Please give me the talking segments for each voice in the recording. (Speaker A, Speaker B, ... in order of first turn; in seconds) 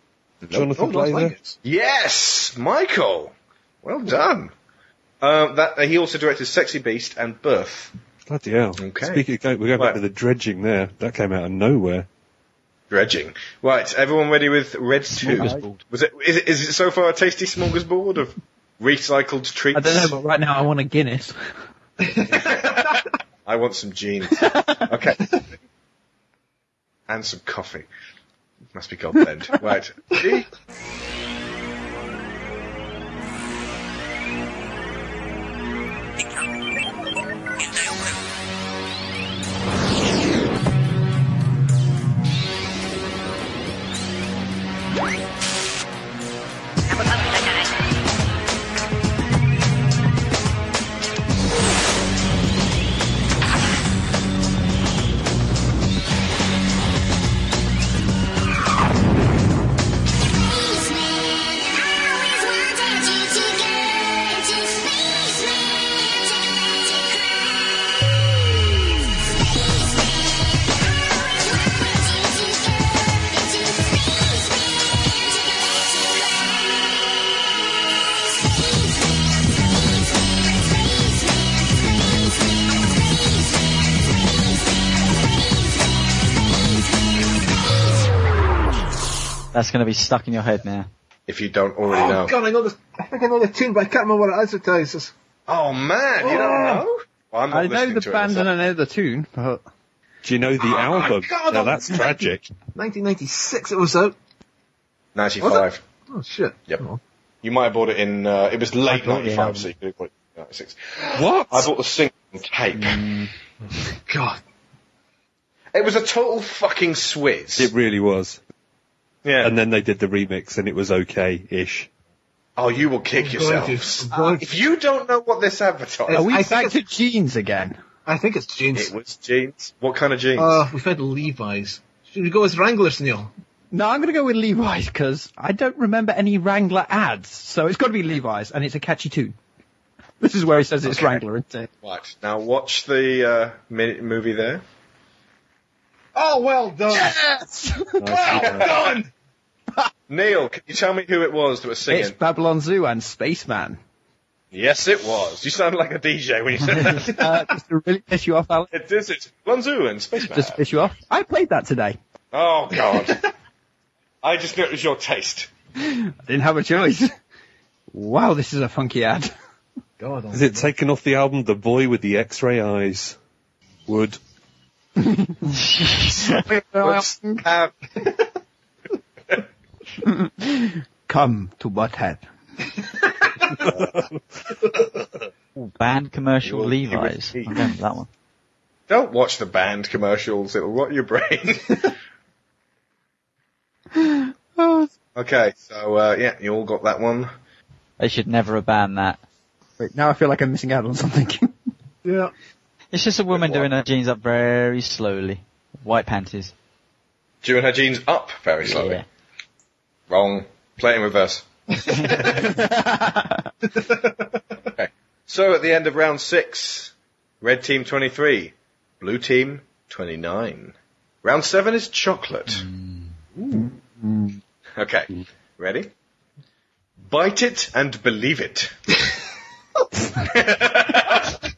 Speaker A: 0.4-4.5, 5.2-7.9, 8.8-9.2, 12.9-20.2, 22.3-25.2, 27.1-27.9, 28.7-30.5, 91.3-92.3, 95.5-98.6, 105.1-105.8, 107.4-113.0, 115.7-117.7, 119.2-119.5, 122.6-126.3, 128.7-130.6, 140.9-141.2, 141.8-144.6, 148.4-148.7, 150.1-152.2, 154.5-157.3, 158.7-160.6, 162.3-163.2, 164.2-165.5, 176.8-177.7, 186.4-187.6, 188.9-191.8, 195.2-197.3, 203.3-203.7, 207.4-209.0, 210.1-211.4, 214.7-222.6, 224.8-225.9, 227.1-228.7, 230.3-231.2
Speaker B: 0.5-1.4, 8.3-12.1, 100.2-102.5, 111.2-111.7, 117.6-118.4, 119.4-121.9, 148.0-148.8, 170.3-173.2, 173.9-174.2, 183.6-184.2
Speaker C: 1.0-1.5, 22.0-22.6, 91.9-95.1, 96.2-96.8, 100.6-104.1, 105.4-107.0, 114.1-114.4, 123.2-124.5, 126.1-126.8, 128.1-128.9, 130.3-133.3, 146.1-147.2, 148.2-149.1, 170.0-170.7, 202.0-202.3, 213.7-214.2
Speaker D: 15.1-15.8, 89.5-90.9, 175.6-176.3, 185.6-188.1, 198.0-199.2, 202.9-206.5, 208.6-209.0, 222.5-223.1
Speaker E: 19.7-21.4, 97.5-99.6, 126.1-127.8, 133.7-139.3, 140.2-141.7, 146.9-148.4, 151.9-153.8, 157.0-158.7, 160.3-162.0, 165.8-167.1, 167.9-169.3, 175.0-175.3, 176.2-177.4, 180.0-182.2, 193.9-194.9, 199.8-201.5, 212.4-213.3